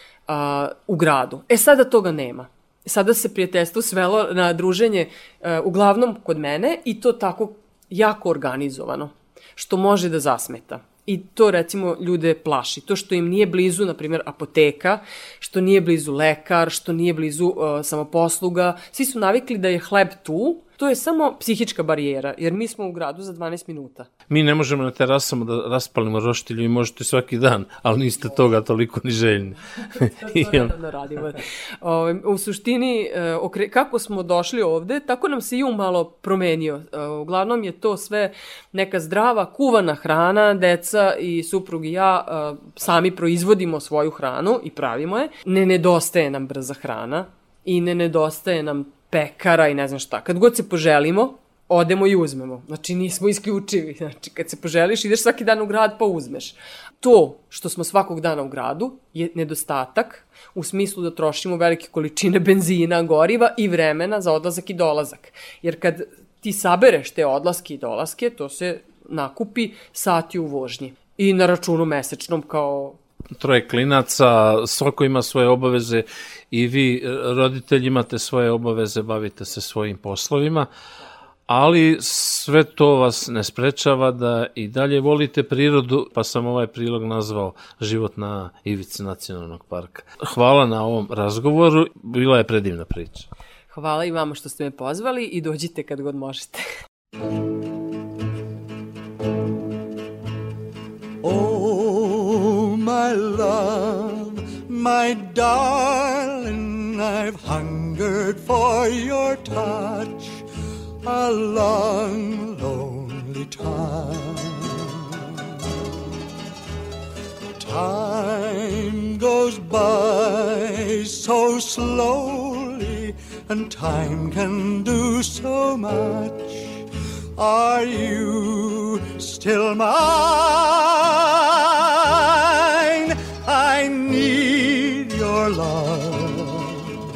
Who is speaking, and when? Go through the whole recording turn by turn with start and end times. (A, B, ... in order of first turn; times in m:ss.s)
0:00.3-0:24.1 A
0:24.3-0:30.7 B
0:30.2-1:13.0 A
1:13.4-1:20.7 B
1:21.5-1:33.3 B
1:33.7-1:36.6 A
1:41.2-1:50.4 C
1:51.0-1:55.0 C
1:57.6-2:06.8 C
2:07.4-2:16.9 C